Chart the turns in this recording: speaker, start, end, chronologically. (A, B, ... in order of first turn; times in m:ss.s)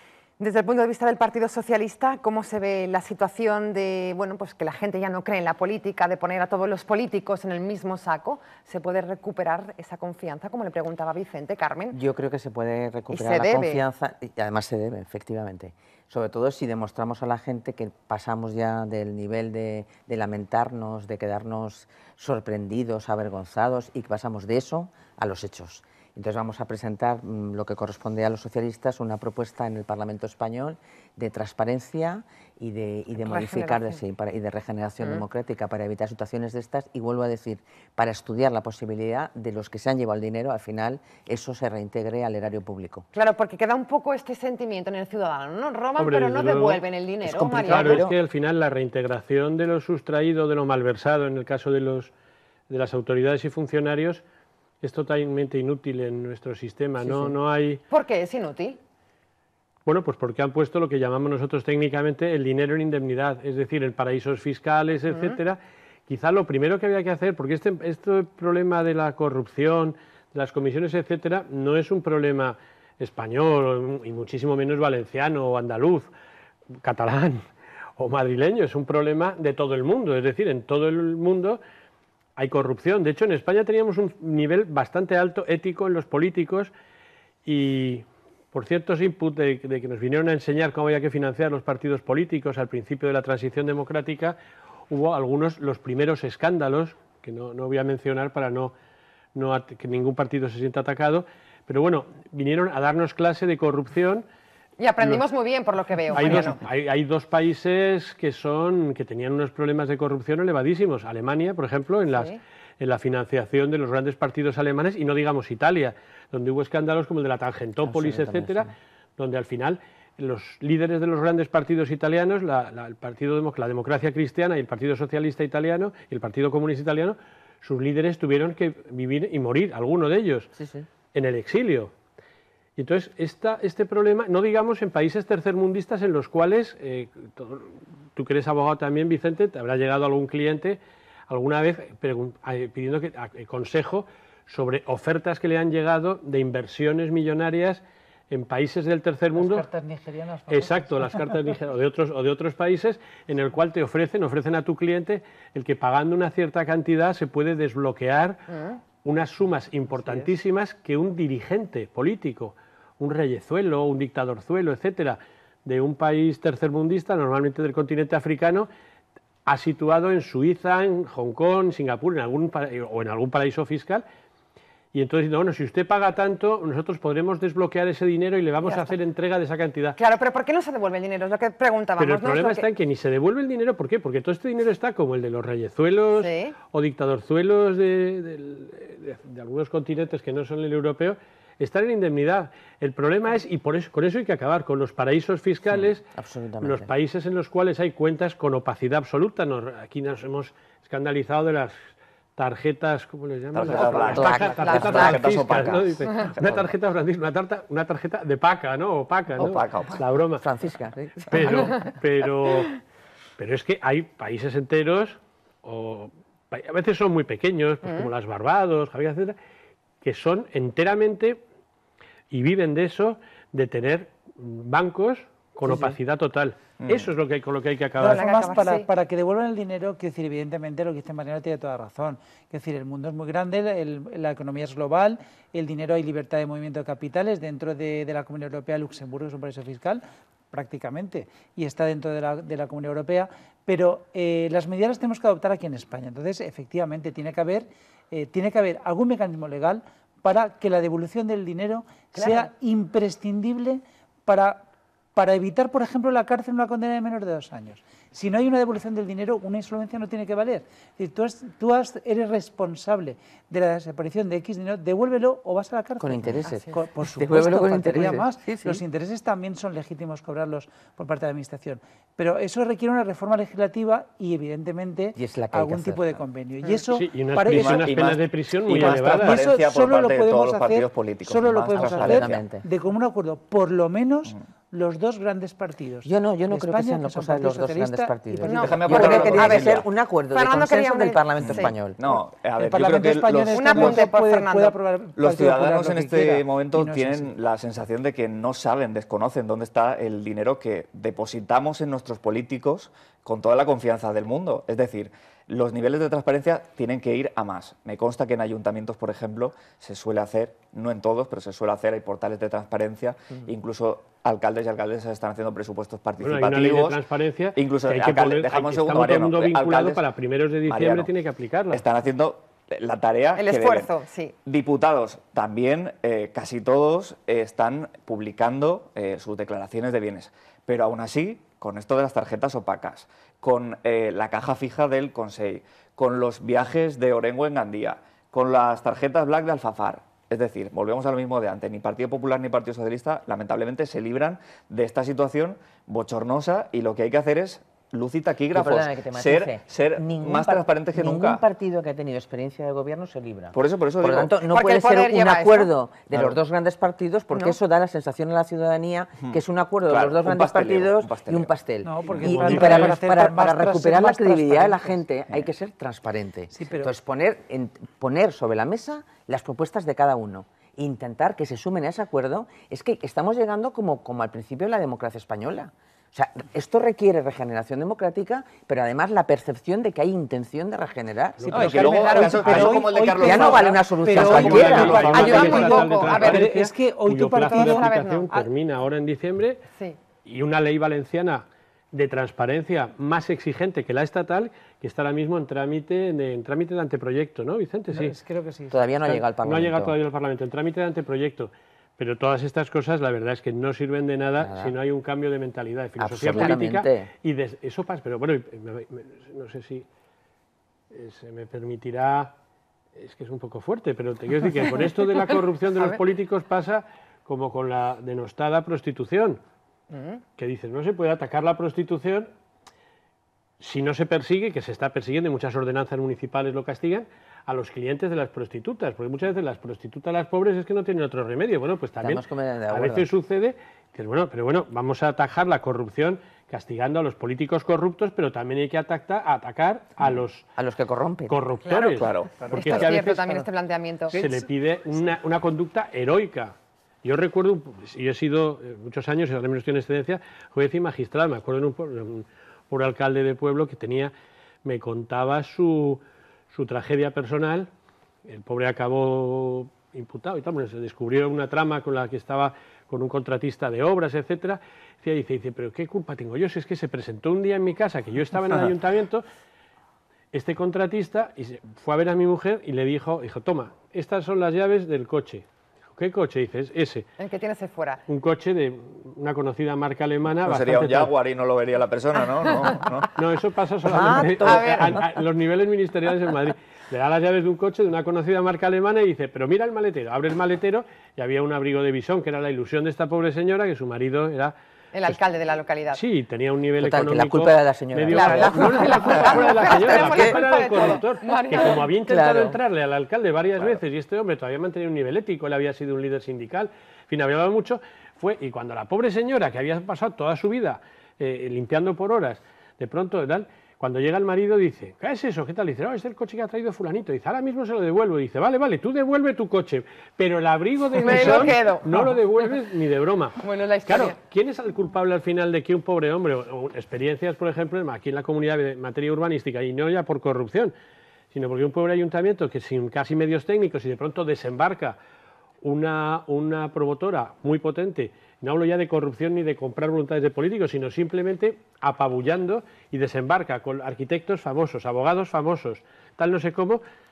0:00.4-0:12.0 A
0:11.9-0:43.1 B
0:13.1-0:13.8 A
0:33.3-0:34.0 A
0:43.2-0:48.0 A
0:46.0-0:46.8 C
0:47.2-0:48.2 B
0:47.5-0:52.1 C
0:52.7-0:54.2 C
0:54.8-0:57.8 C
0:57.0-0:57.4 B
0:57.9-0:58.8 A
0:59.9-1:16.1 C
1:05.1-1:05.4 A
1:16.8-1:17.4 C
1:18.0-1:21.6 C
1:22.4-1:26.7 C
1:27.4-1:34.4 C
1:34.9-1:38.7 C
1:39.4-1:44.2 C
1:44.8-1:46.6 A
1:46.1-2:10.5 C
1:46.2-1:46.6 D
1:52.1-1:52.4 A
1:57.8-1:58.7 B
2:10.6-2:10.9 B
2:11.1-2:11.9 C
2:12.8-2:20.8 C
2:21.3-2:29.7 C
2:29.4-2:31.5 E
2:30.5-2:38.5 C
2:38.5-2:38.8 A
2:39.0-2:48.7 C
2:39.9-2:40.3 E
2:49.5-2:54.0 C
2:54.9-3:00.0 C
2:58.6-2:58.9 A
3:00.0-3:02.6 A
3:02.0-3:16.1 C
3:06.2-3:06.6 A
3:16.2-3:16.9 B
3:16.6-3:21.8 C
3:22.4-3:30.5 C
3:23.5-3:26.7 D
3:23.6-3:25.7 B
3:23.8-3:24.0 A
3:24.6-3:25.3 A
3:29.4-3:30.0 D
3:30.4-3:31.8 B
3:31.3-3:32.8 C
3:31.5-3:31.7 A
3:33.4-3:39.4 C
3:40.0-3:41.4 C
3:42.3-3:48.3 C
3:45.7-3:46.0 E
3:46.8-3:47.1 D
3:48.0-4:14.6 E
3:48.0-3:48.9 A
4:12.2-4:12.5 A
4:15.2-4:38.0 E
4:26.0-4:28.8 B
4:26.4-4:26.7 A
4:35.2-4:36.2 B
4:36.9-4:39.4 C
4:37.5-4:42.4 D
4:38.7-4:49.5 E
4:41.8-4:42.6 B
4:46.0-4:52.0 B
4:48.5-4:51.8 A
4:48.5-4:49.9 D
4:51.4-4:54.1 D
4:52.6-4:57.3 E
4:53.5-4:54.8 A
4:55.2-5:17.0 D
5:16.2-5:21.8 C
5:17.6-5:20.0 D
5:20.7-5:21.1 D
5:21.7-5:23.9 D
5:23.4-5:24.4 A
5:24.4-5:51.4 D
5:48.5-6:21.9 B
5:53.5-5:54.4 D
5:54.4-5:55.7 A
5:59.2-6:01.5 D
6:01.8-6:05.0 E
6:02.3-6:02.9 C
6:06.5-6:06.9 E
6:21.4-6:22.7 C
6:21.5-6:28.5 E
6:21.5-6:25.6 D
6:22.0-6:22.8 A
6:23.2-6:25.4 B
6:24.1-6:29.6 C
6:25.1-6:26.5 A
6:27.5-6:28.3 A
6:30.2-6:38.2 C
6:37.9-6:39.2 E
6:38.7-6:40.0 B
6:39.4-6:49.9 C
6:44.4-6:44.7 B
6:46.0-6:47.1 B
6:50.9-6:52.3 C
6:53.0-6:59.4 C
6:54.8-6:55.1 A
6:59.9-7:00.2 A
7:00.4-7:02.3 C
7:03.6-7:20.5 C
7:12.0-7:13.1 B
7:20.6-7:21.4 B
7:21.3-7:23.5 C
7:21.7-7:24.2 A
7:22.0-7:22.8 D
7:22.4-7:22.9 E
7:24.1-7:24.5 E
7:24.1-7:34.1 C
7:34.6-7:36.0 C
7:36.5-7:37.7 C
7:38.3-7:49.2 C
7:50.3-7:57.1 C
7:57.2-7:58.0 A
7:58.1-8:01.1 C
8:00.4-8:03.1 D
8:03.2-8:14.5 C
8:03.9-8:05.0 B
8:04.0-8:05.0 A
8:14.9-8:16.0 A
8:15.9-8:50.7 C
8:16.8-8:20.4 B
8:18.1-8:21.8 A
8:22.1-8:22.6 B
8:41.0-8:42.0 A
8:41.1-8:42.1 E
8:43.4-8:44.2 A
8:51.3-8:55.0 C
8:55.6-9:06.8 C